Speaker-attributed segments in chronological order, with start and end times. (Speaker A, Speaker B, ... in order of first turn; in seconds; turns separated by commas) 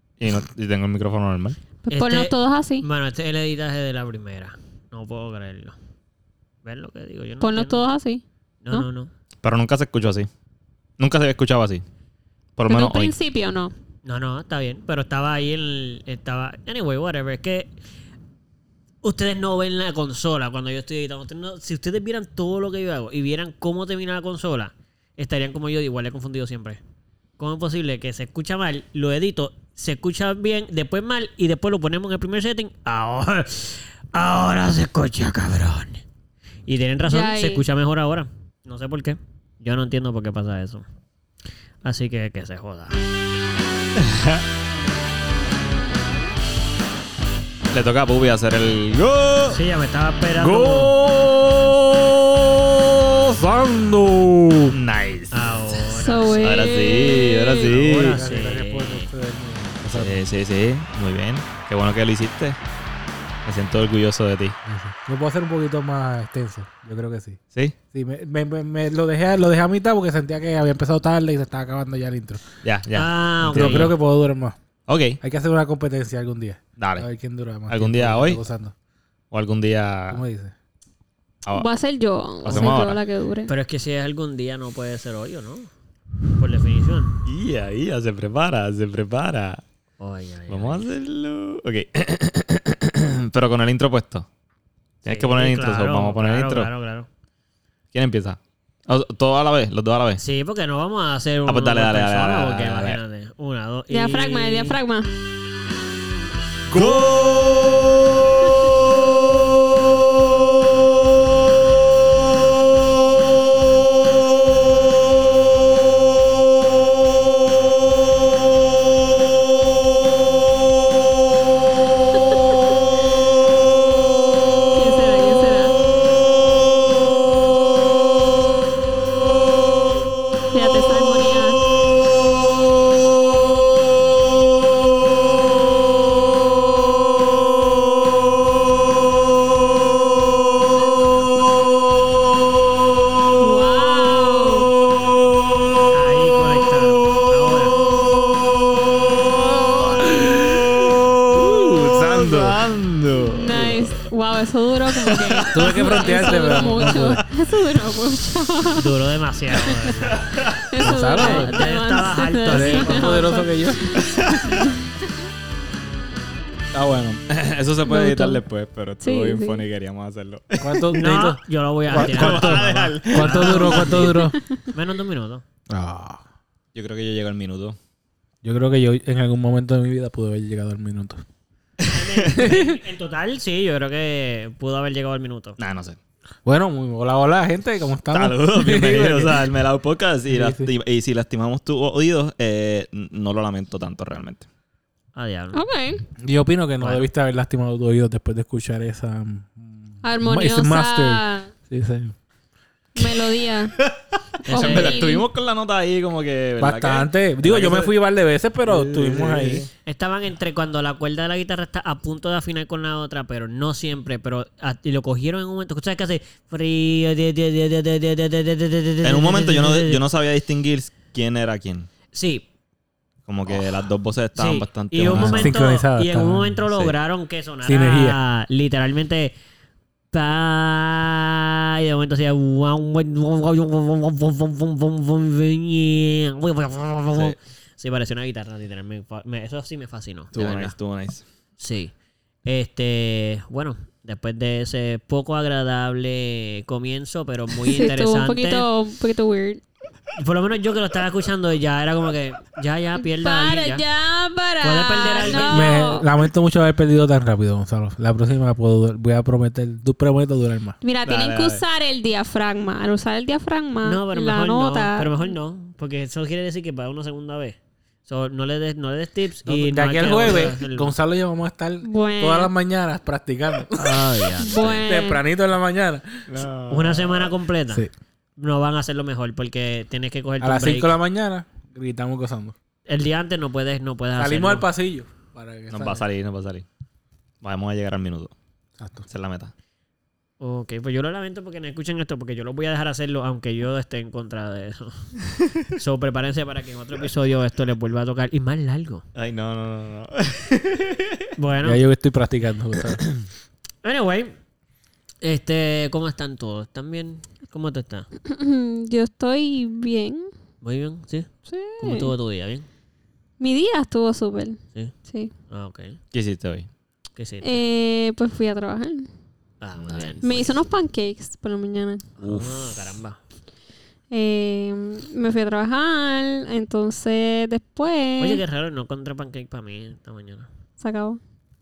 Speaker A: 0.2-1.6, Speaker B: 1.9-2.9, Speaker C: 1.9-5.8, Speaker C: 6.6-7.8, Speaker B: 7.4-8.9, Speaker C: 8.6-9.1, Speaker A: 9.4-10.3, Speaker A: 11.0-11.8, Speaker A: 12.6-13.2, Speaker B: 12.7-13.7, Speaker C: 14.1-17.7, Speaker C: 19.0-26.8, Speaker C: 27.4-36.0, Speaker C: 36.7-40.9, Speaker B: 37.1-37.6, Speaker C: 41.8-43.0, Speaker A: 44.0-44.4, Speaker A: 47.7-49.6, Speaker C: 49.5-50.9, Speaker D: 50.4-54.8, Speaker A: 54.7-58.3, Speaker C: 55.3-56.6, Speaker B: 55.9-57.7, Speaker C: 57.6-59.1, Speaker D: 57.9-60.2, Speaker A: 59.9-62.6, Speaker A: 63.5-64.6, Speaker D: 64.7-67.4, Speaker D: 67.9-72.5, Speaker A: 72.6-74.0, Speaker C: 73.0-73.9, Speaker D: 73.5-74.6, Speaker A: 74.9-75.2, Speaker D: 75.2-78.8, Speaker A: 76.8-77.1, Speaker A: 77.7-78.4, Speaker A: 79.3-80.2, Speaker D: 80.1-80.5, Speaker A: 81.4-81.7, Speaker B: 81.5-83.5, Speaker A: 82.4-83.0, Speaker C: 83.5-85.7, Speaker C: 86.4-87.2, Speaker A: 87.2-89.6, Speaker C: 90.0-90.9, Speaker A: 90.5-94.3, Speaker A: 95.0-96.7, Speaker C: 95.0-97.1, Speaker A: 97.9-100.2, Speaker C: 100.2-104.8, Speaker A: 101.5-103.0, Speaker B: 103.9-105.1, Speaker D: 106.7-107.9, Speaker A: 106.7-107.2, Speaker B: 124.7-125.8, Speaker B: 130.5-131.7, Speaker B: 143.4-144.7, Speaker C: 145.9-147.8, Speaker D: 149.6-150.8, Speaker A: 150.0-153.9, Speaker D: 151.3-152.6, Speaker B: 153.3-158.9, Speaker A: 154.9-157.3, Speaker D: 155.5-157.2, Speaker C: 158.8-160.3, Speaker A: 160.1-160.7, Speaker B: 160.7-164.8, Speaker D: 160.8-161.7, Speaker C: 161.1-163.3, Speaker D: 162.5-164.0, Speaker A: 163.9-164.7, Speaker D: 166.7-167.2, Speaker A: 167.3-170.8, Speaker B: 167.9-168.4, Speaker B: 169.0-169.6, Speaker D: 170.6-174.4, Speaker C: 170.9-175.4, Speaker A: 171.9-174.2, Speaker D: 175.7-176.2, Speaker A: 176.7-177.8, Speaker D: 178.4-181.2, Speaker A: 181.8-182.4, Speaker C: 181.9-185.6, Speaker D: 182.4-182.8, Speaker A: 185.6-186.0, Speaker D: 186.4-189.5, Speaker A: 188.1-194.5, Speaker D: 190.3-190.7, Speaker C: 195.2-195.6, Speaker B: 195.5-196.1, Speaker D: 196.2-202.2, Speaker C: 196.8-197.1, Speaker B: 200.0-201.5, Speaker B: 202.9-203.8, Speaker A: 203.7-207.1, Speaker C: 204.4-205.0, Speaker B: 204.5-205.3, Speaker D: 206.6-209.7, Speaker C: 207.4-207.9, Speaker A: 208.7-209.7, Speaker C: 209.8-220.0, Speaker A: 219.0-221.9, Speaker C: 222.1-222.5, Speaker A: 223.3-225.6, Speaker C: 224.3-229.3, Speaker D: 225.1-226.6, Speaker D: 227.7-228.2, Speaker C: 230.1-240.8, Speaker A: 240.3-241.2, Speaker C: 241.6-241.9, Speaker C: 242.4-248.7, Speaker B: 247.6-249.6, Speaker C: 250.2-253.8, Speaker B: 253.0-256.1, Speaker C: 254.6-256.0, Speaker D: 255.4-260.8, Speaker B: 260.8-265.4, Speaker A: 261.0-261.6, Speaker C: 263.8-270.9, Speaker D: 269.4-276.3, Speaker B: 271.8-272.5, Speaker C: 273.8-274.9, Speaker B: 274.4-275.2, Speaker A: 276.3-277.4, Speaker C: 276.7-280.9, Speaker D: 280.4-282.6, Speaker C: 282.9-284.7, Speaker D: 284.2-286.1, Speaker A: 285.7-286.6, Speaker A: 287.4-288.3, Speaker D: 288.8-289.1, Speaker A: 289.1-289.5, Speaker C: 290.4-295.1, Speaker C: 295.7-299.1, Speaker A: 299.1-301.3, Speaker C: 301.4-301.8, Speaker D: 301.6-303.1, Speaker C: 303.8-304.4, Speaker C: 305.2-308.1, Speaker B: 308.2-310.3, Speaker C: 310.6-312.7, Speaker B: 311.5-312.1, Speaker B: 313.4-315.3, Speaker C: 315.5-316.0, Speaker A: 316.1-316.7, Speaker C: 317.2-317.6, Speaker B: 317.4-319.1, Speaker C: 319.6-320.6, Speaker A: 319.9-320.2, Speaker B: 320.2-322.1, Speaker C: 322.2-323.2, Speaker D: 322.2-322.6, Speaker B: 324.1-328.4, Speaker C: 328.2-330.5, Speaker B: 330.8-331.2